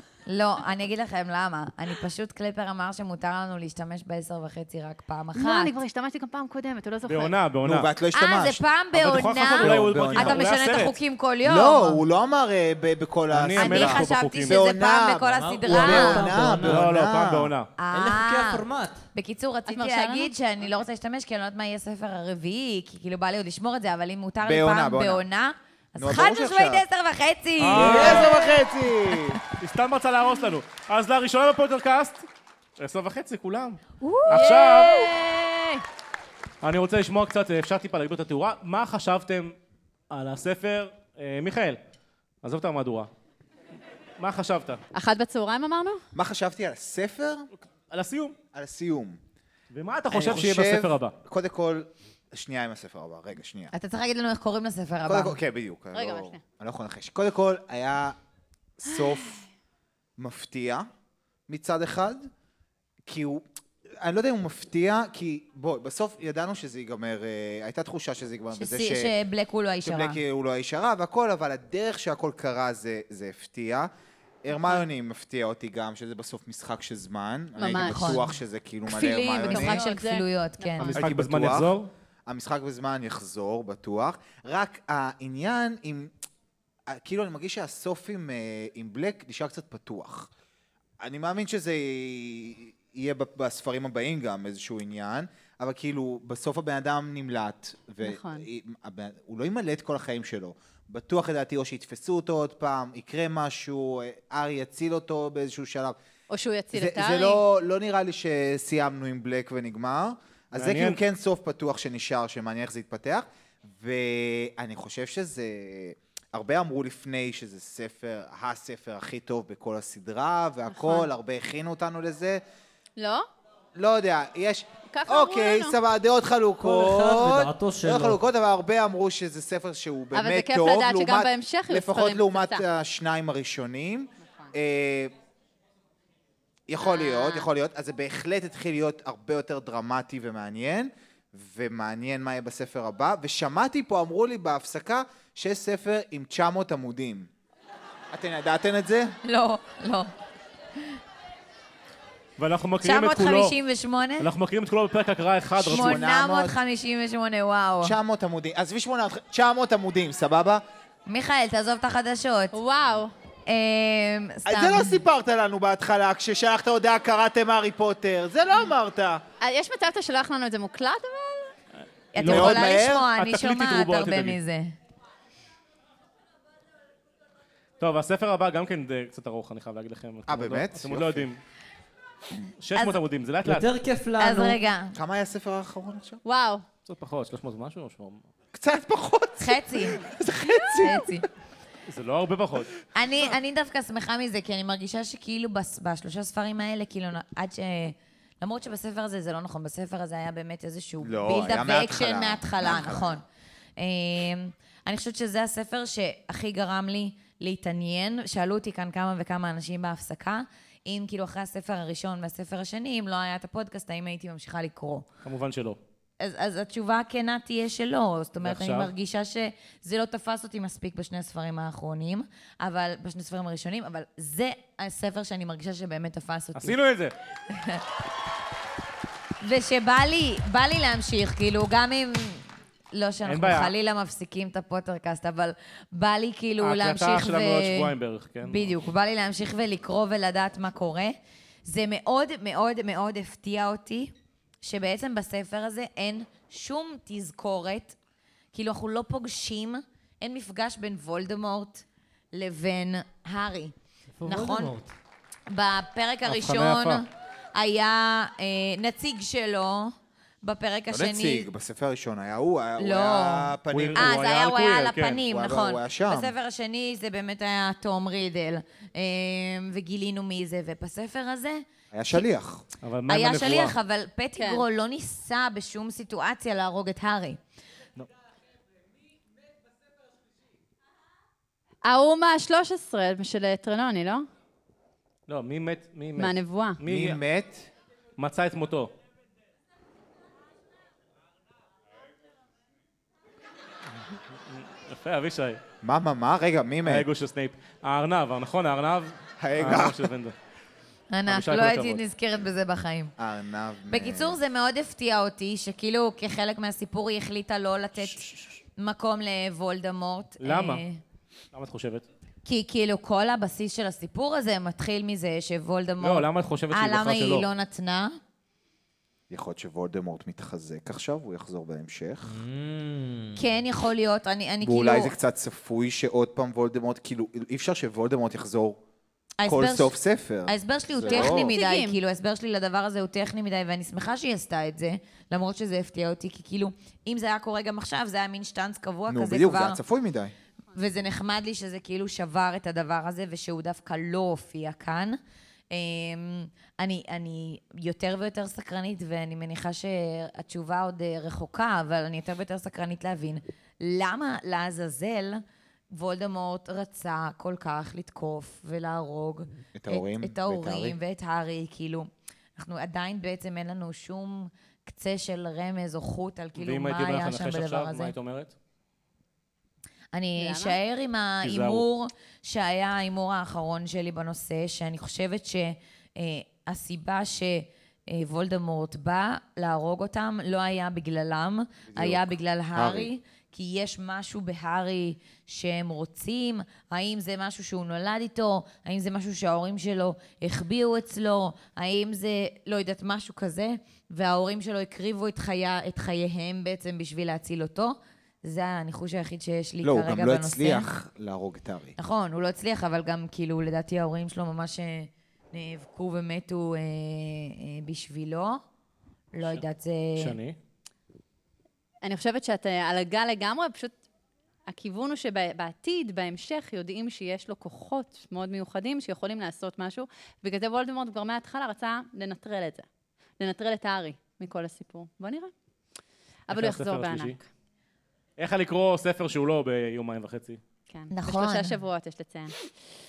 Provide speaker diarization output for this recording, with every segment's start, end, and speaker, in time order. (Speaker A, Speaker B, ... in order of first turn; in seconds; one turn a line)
Speaker A: 0.3-5.8
Speaker B: 5.3-7.4
Speaker C: 7.1-7.9
Speaker D: 7.6-8.6
Speaker A: 8.1-12.0
Speaker C: 8.9-11.0
Speaker D: 9.6-10.4
Speaker D: 11.4-17.5
Speaker C: 13.3-14.6
Speaker A: 13.6-16.3
Speaker E: 15.3-16.9
Speaker C: 16.6-17.7
Speaker A: 17.8-28.5
Speaker E: 17.9-19.1
Speaker B: 19.7-20.3
Speaker D: 24.4-25.2
Speaker D: 26.0-26.8
Speaker C: 27.6-28.4
Speaker D: 27.7-29.4
Speaker E: 27.8-28.3
Speaker A: 29.1-29.4
Speaker C: 29.6-32.2
Speaker C: 32.8-35.1
Speaker A: 34.0-34.5
Speaker B: 34.3-35.8
Speaker C: 36.6-39.5
Speaker C: 40.1-41.8
Speaker C: 42.4-43.1
Speaker C: 44.2-44.8
Speaker B: 44.9-46.0
Speaker D: 46.1-47.5
Speaker C: 47.9-48.4
Speaker D: 48.5-49.2
Speaker C: 49.7-51.1
Speaker D: 50.1-53.7
Speaker A: 53.7-55.4
Speaker D: 55.1-58.2
Speaker B: 55.9-56.4
Speaker D: 58.8-59.4
Speaker D: 60.2-60.9
Speaker D: 61.5-62.3
Speaker D: 63.1-63.4
Speaker D: 64.0-69.1
Speaker A: 68.5-70.2
Speaker D: 69.8-73.9
Speaker D: 74.4-79.8
Speaker B: 77.6-78.3
Speaker A: 77.7-78.3
Speaker A: 78.9-81.0
Speaker B: 79.4-81.0
Speaker C: 80.9-81.9
Speaker D: 81.0-81.7
Speaker D: 82.3-86.1
Speaker D: 86.9-90.3
Speaker D: 91.0-106.0
Speaker B: 98.0-98.5
Speaker B: 106.3-107.4
Speaker D: 106.7-122.4
Speaker C: 110.5-111.0
Speaker B: 120.7-121.1
Speaker B: 123.0-123.3
Speaker D: 123.8-135.1
Speaker B: 124.9-125.8
Speaker E: 126.6-128.2
Speaker B: 130.1-132.6
Speaker D: 136.7-147.3
Speaker B: 136.8-137.5
Speaker D: 148.1-149.2
Speaker A: 149.2-150.1
Speaker C: 152.4-153.6
Speaker A: 152.8-154.3
Speaker C: 154.2-156.0
Speaker D: 155.6-156.6
Speaker A: 155.6-157.9
Speaker D: 157.8-160.6
Speaker A: 161.1-162.6
Speaker B: 162.5-163.1
Speaker A: 163.5-165.0
Speaker D: 164.4-169.2
Speaker B: 169.4-171.5
Speaker A: 172.1-174.8
Speaker C: 172.1-174.4
Speaker D: 172.2-173.1
Speaker C: 177.8-181.4
Speaker D: 180.3-181.3
Speaker C: 182.6-183.7
Speaker A: 182.8-183.0
Speaker E: 183.4-184.6
Speaker A: 184.2-185.0
Speaker D: 184.9-186.2
Speaker B: 186.2-186.6
Speaker C: 186.9-188.2
Speaker D: 188.5-191.2
Speaker A: 189.4-190.0
Speaker A: 190.8-191.3
Speaker C: 191.9-192.7
Speaker A: 192.9-203.2
Speaker D: 201.0-203.2
Speaker A: 203.8-215.1
Speaker C: 215.2-215.8
Speaker A: 216.2-226.8
Speaker C: 218.4-218.9
Speaker C: 226.6-227.1
Speaker A: 227.5-227.8
Speaker A: 229.4-237.9
Speaker C: 233.3-233.7
Speaker C: 236.6-238.7
Speaker A: 238.4-248.0
Speaker A: 248.5-254.8
Speaker E: 254.2-254.9
Speaker A: 255.5-261.5
Speaker C: 256.2-257.0
Speaker D: 260.9-264.2
Speaker A: 262.8-272.3
Speaker C: 263.7-265.2
Speaker D: 265.3-266.3
Speaker D: 271.9-272.6
Speaker C: 272.8-273.8
Speaker A: 273.1-277.4
Speaker B: 274.4-274.6
Speaker B: 281.8-284.3
Speaker C: 285.3-287.2
Speaker B: 286.2-286.8
Speaker D: 286.9-287.7
Speaker C: 288.2-288.9
Speaker C: 294.5-295.6
Speaker D: 295.8-297.1
Speaker C: 296.9-300.4
Speaker D: 299.4-300.1
Speaker A: 301.1-303.1
Speaker C: 301.3-302.0
Speaker D: 303.2-304.4
Speaker A: 303.9-311.0
Speaker C: 310.4-310.9
Speaker C: 311.5-312.1
Speaker A: 312.4-318.2
Speaker C: 316.0-317.4
Speaker D: 319.3-322.4
Speaker E: 322.2-323.4
Speaker A: 323.4-325.1
Speaker D: 324.6-328.8
Speaker A: 329.4-339.8
Speaker D: 329.4-331.5
Speaker B: 331.1-332.0
Speaker D: 339.1-340.3
Speaker A: 340.7-345.2
Speaker A: 345.7-368.1
Speaker D: 359.8-361.0
Speaker C: 366.6-368.5
Speaker A: 370.1-400.9
Speaker B: 370.4-370.8
Speaker C: 371.4-371.9
Speaker D: 381.9-383.1
Speaker D: 399.8-401.9
Speaker A: 402.0-408.6
Speaker A: 409.3-410.4
Speaker C: 410.2-410.6
Speaker B: 412.0-414.0
Speaker B: 414.7-422.9
Speaker B: 423.4-425.5
Speaker B: 426.5-427.5
Speaker C: 426.5-427.4
Speaker C: 428.4-430.6
Speaker B: 430.9-432.6
Speaker A: 431.1-431.8